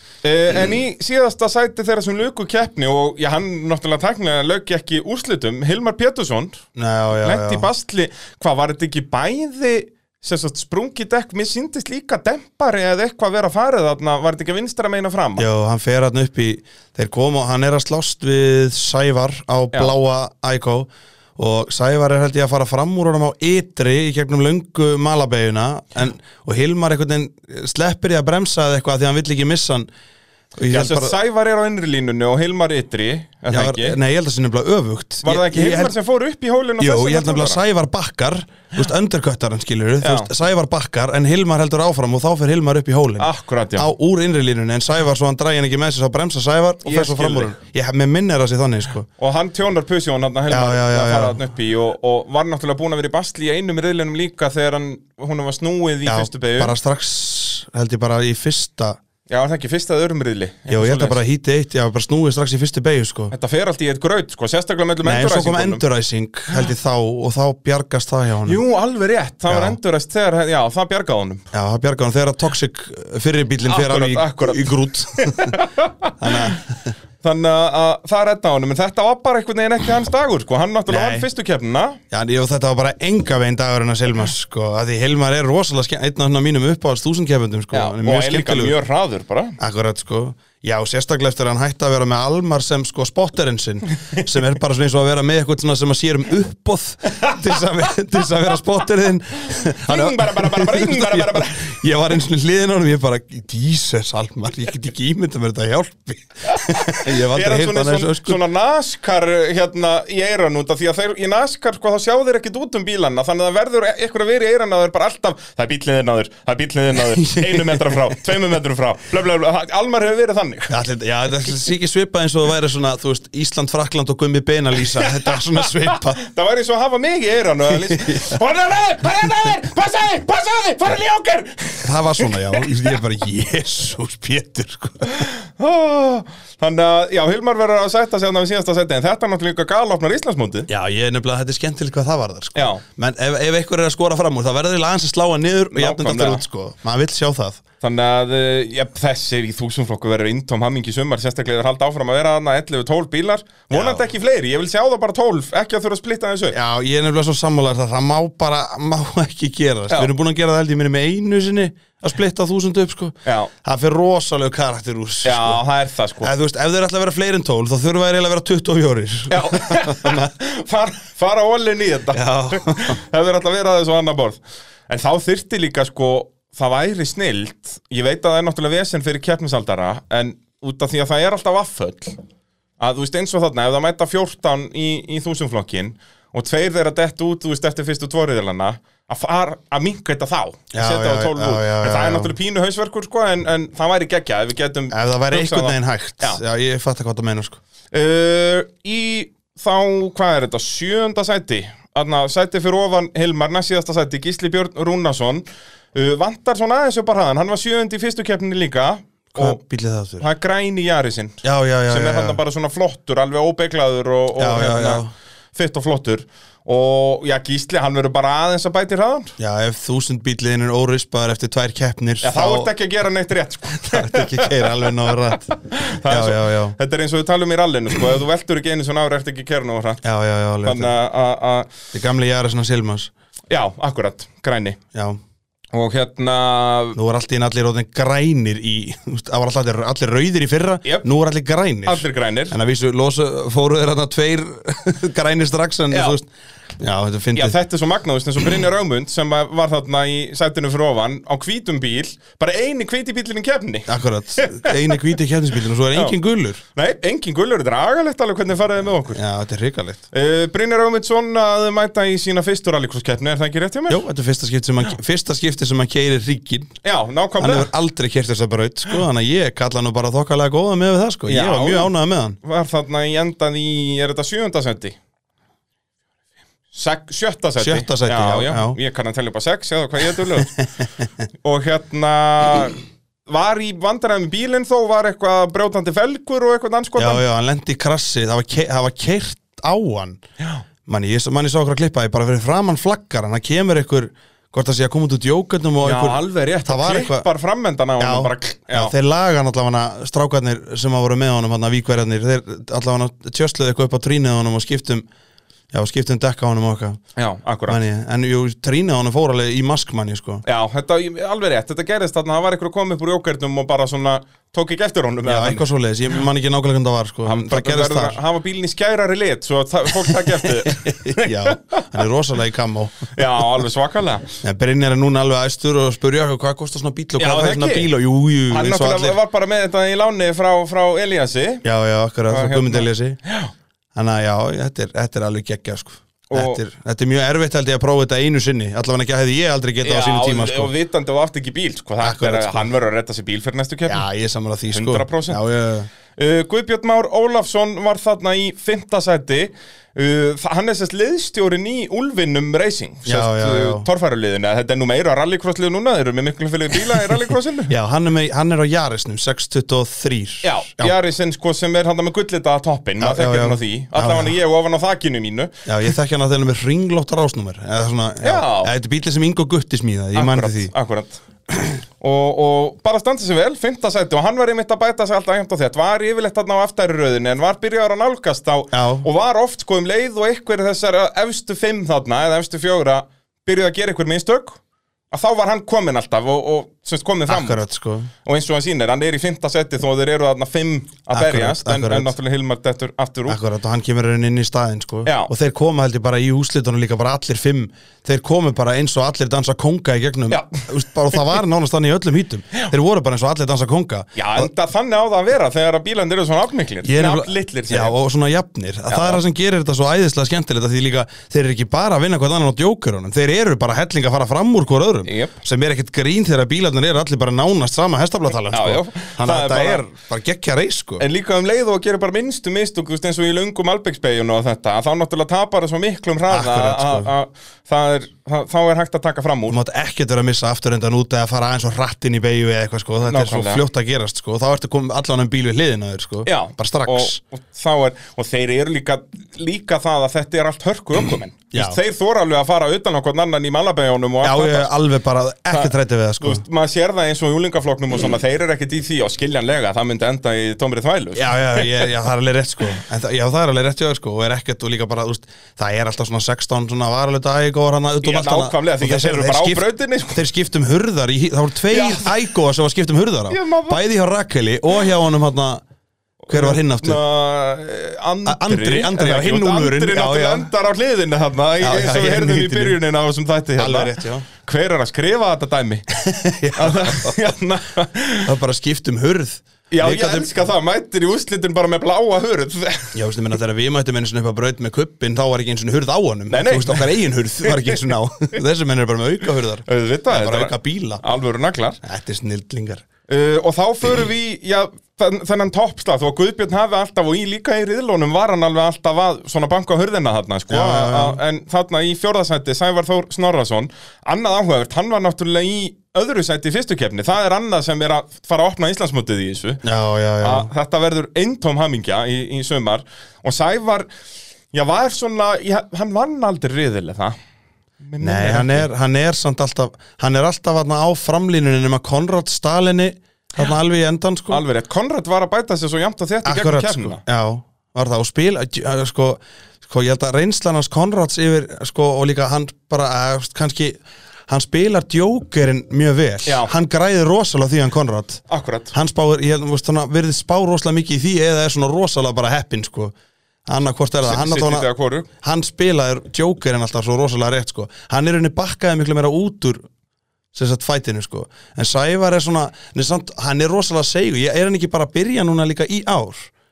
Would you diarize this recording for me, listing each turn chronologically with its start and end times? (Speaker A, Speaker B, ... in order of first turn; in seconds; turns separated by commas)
Speaker A: 0.2-6.6, Speaker B: 6.8-7.7, Speaker A: 7.1-15.4, Speaker B: 15.4-29.9, Speaker B: 30.6-31.1, Speaker A: 30.7-34.0, Speaker B: 33.5-35.9, Speaker A: 35.2-37.6, Speaker B: 36.8-49.1, Speaker A: 40.0-40.3, Speaker A: 43.2-43.9, Speaker A: 46.8-47.5, Speaker A: 49.2-56.7, Speaker B: 50.5-51.4, Speaker B: 56.0-59.0, Speaker A: 59.3-61.2, Speaker B: 60.7-63.3, Speaker A: 63.3-65.8, Speaker B: 65.0-68.6, Speaker A: 68.5-71.4, Speaker B: 69.5-69.8, Speaker B: 71.5-75.6, Speaker A: 73.6-76.6, Speaker B: 76.2-76.9, Speaker A: 77.2-82.0, Speaker B: 80.9-81.2, Speaker B: 82.1-88.8, Speaker A: 87.7-89.6, Speaker B: 89.6-108.4, Speaker A: 97.2-97.6, Speaker A: 99.8-101.8, Speaker A: 106.5-120.7, Speaker B: 117.2-118.2, Speaker B: 120.7-126.2, Speaker A: 124.9-132.8, Speaker B: 127.7-128.4, Speaker B: 131.8-135.3, Speaker A: 135.1-140.7, Speaker B: 140.7-147.6, Speaker A: 142.5-142.8, Speaker A: 145.7-146.4, Speaker A: 147.8-156.6, Speaker B: 153.7-154.0, Speaker B: 156.5-165.6, Speaker A: 163.2-163.5, Speaker A: 165.2-166.3, Speaker B: 166.2-170.3, Speaker A: 169.3-182.2, Speaker B: 172.1-173.0, Speaker A: 182.8-196.4, Speaker B: 190.7-192.3, Speaker B: 194.9-197.6, Speaker A: 197.9-209.6, Speaker B: 209.3-210.2, Speaker A: 210.2-215.0, Speaker B: 211.4-212.4, Speaker B: 214.4-215.1, Speaker A: 215.5-219.3, Speaker B: 219.4-222.7, Speaker A: 222.2-230.0, Speaker B: 223.7-226.7, Speaker B: 230.0-230.9, Speaker A: 230.6-231.7, Speaker B: 231.9-233.1, Speaker A: 233.5-234.8, Speaker B: 234.9-235.2, Speaker A: 235.7-237.0, Speaker B: 236.9-246.3, Speaker A: 241.8-242.6, Speaker A: 245.9-246.2, Speaker B: 246.8-247.6, Speaker A: 247.3-255.1, Speaker B: 253.9-256.6, Speaker A: 256.7-259.2, Speaker B: 259.1-260.0, Speaker A: 260.1-264.0, Speaker B: 263.9-266.7, Speaker A: 266.8-267.7, Speaker B: 267.4-272.4, Speaker A: 271.3-274.9, Speaker A: 276.7-280.5, Speaker B: 277.6-278.8, Speaker B: 280.4-280.9, Speaker A: 281.4-287.2, Speaker B: 287.0-290.2, Speaker B: 290.9-297.2, Speaker A: 295.8-298.9, Speaker B: 298.0-305.0, Speaker B: 305.7-307.0, Speaker A: 307.1-307.8, Speaker B: 307.7-310.4, Speaker A: 310.4-315.6, Speaker B: 315.2-318.2, Speaker A: 317.2-321.9, Speaker B: 320.0-323.2, Speaker A: 323.1-324.3, Speaker B: 324.4-329.2, Speaker A: 327.2-327.9, Speaker A: 328.5-331.6, Speaker B: 331.6-333.2, Speaker A: 332.3-333.5, Speaker B: 333.9-340.7, Speaker A: 336.3-336.6, Speaker A: 339.8-344.0, Speaker B: 342.0-342.7, Speaker B: 343.9-345.9, Speaker A: 344.7-345.4, Speaker A: 346.1-357.7, Speaker B: 353.1-353.9, Speaker B: 357.7-360.9, Speaker A: 360.4-365.6, Speaker B: 363.0-364.4, Speaker B: 365.6-370.7, Speaker A: 368.2-368.7, Speaker A: 370.1-371.2, Speaker A: 372.0-384.6, Speaker B: 378.7-379.1, Speaker A: 385.1-387.6, Speaker B: 387.3-388.1, Speaker A: 388.2-393.4, Speaker B: 391.1-392.1, Speaker B: 393.3-404.5, Speaker A: 395.0-395.3, Speaker A: 400.3-400.6, Speaker A: 404.1-407.9, Speaker B: 406.8-421.0, Speaker A: 408.9-409.2, Speaker A: 415.1-415.3, Speaker A: 418.5-419.8, Speaker A: 421.0-429.6, Speaker B: 426.3-427.1, Speaker B: 429.5-437.2, Speaker A: 433.0-433.6, Speaker A: 436.2-444.7, Speaker B: 441.5-441.8, Speaker B: 444.2-446.4, Speaker A: 445.5-451.9, Speaker B: 451.1-465.6, Speaker A: 458.0-460.2, Speaker A: 461.7-462.2, Speaker A: 463.3-463.8, Speaker A: 466.2-475.8, Speaker B: 466.3-467.0, Speaker B: 468.2-470.5, Speaker B: 471.6-472.8, Speaker B: 473.6-474.2, Speaker B: 476.0-477.3, Speaker A: 476.5-478.3, Speaker B: 478.2-480.3, Speaker A: 479.7-483.0, Speaker B: 482.9-491.0, Speaker A: 486.3-487.9, Speaker A: 489.6-491.8, Speaker B: 491.8-492.8, Speaker A: 493.1-509.6, Speaker B: 500.5-501.2, Speaker B: 509.6-510.5, Speaker A: 510.2-513.9, Speaker A: 514.5-517.1, Speaker A: 517.8-518.7, Speaker B: 518.0-524.4, Speaker A: 524.3-527.0, Speaker B: 526.2-542.9, Speaker A: 536.2-536.5, Speaker A: 538.3-538.7, Speaker B: 543.5-544.7, Speaker A: 544.0-545.1, Speaker B: 545.2-549.6, Speaker B: 550.3-556.3